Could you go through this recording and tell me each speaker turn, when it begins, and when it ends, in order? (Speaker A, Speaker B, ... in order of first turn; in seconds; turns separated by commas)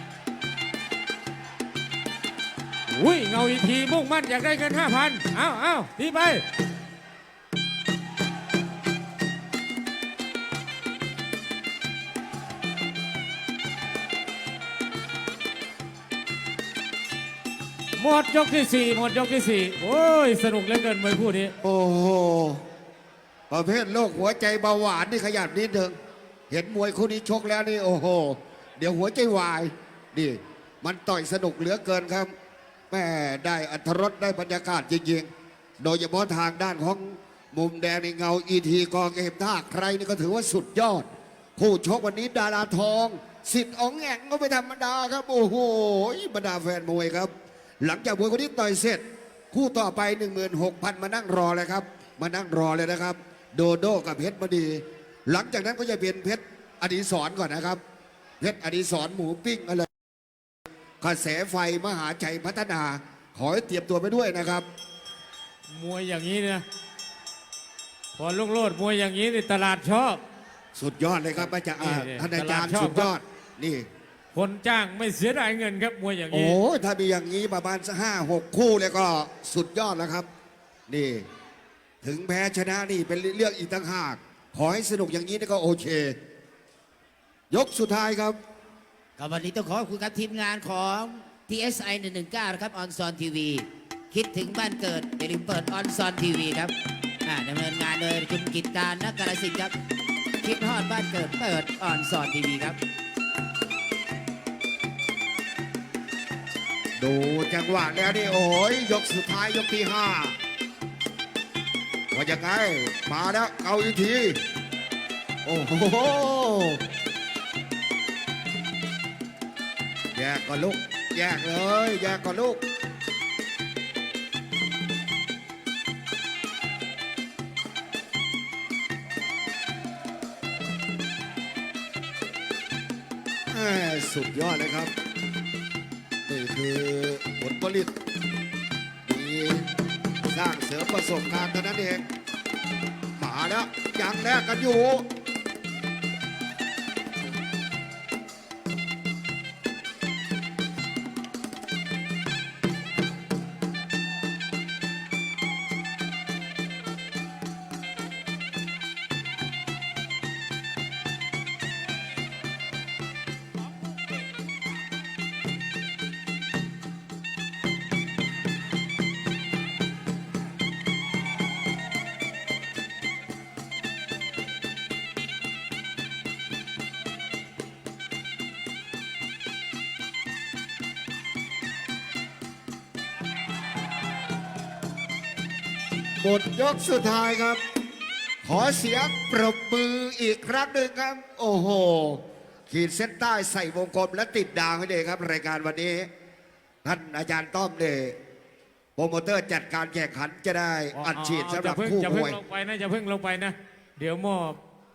Speaker A: 2.9-6.4, Speaker A: 18.0-21.5, Speaker B: 21.6-22.6, Speaker B: 23.5-25.9, Speaker B: 26.5-32.3, Speaker B: 32.9-35.3, Speaker B: 35.8-57.8, Speaker B: 58.4-59.9, Speaker B: 61.0-64.7, Speaker A: 65.7-66.6, Speaker A: 68.2-70.2, Speaker B: 70.8-73.9, Speaker A: 71.5-73.1, Speaker A: 74.3-76.6, Speaker B: 76.3-80.3, Speaker B: 80.9-81.2, Speaker B: 82.0-86.2, Speaker B: 87.5-88.4, Speaker C: 89.2-99.7, Speaker C: 100.4-102.8, Speaker B: 107.0-110.3, Speaker B: 112.1-114.4, Speaker B: 115.4-116.8, Speaker B: 120.1-122.6, Speaker B: 133.5-134.9, Speaker B: 136.2-137.9, Speaker B: 139.1-139.7, Speaker B: 140.3-142.0, Speaker B: 143.2-145.1, Speaker B: 186.2-187.6, Speaker B: 188.4-196.1, Speaker B: 196.8-198.2, Speaker B: 198.9-202.4, Speaker A: 200.9-204.6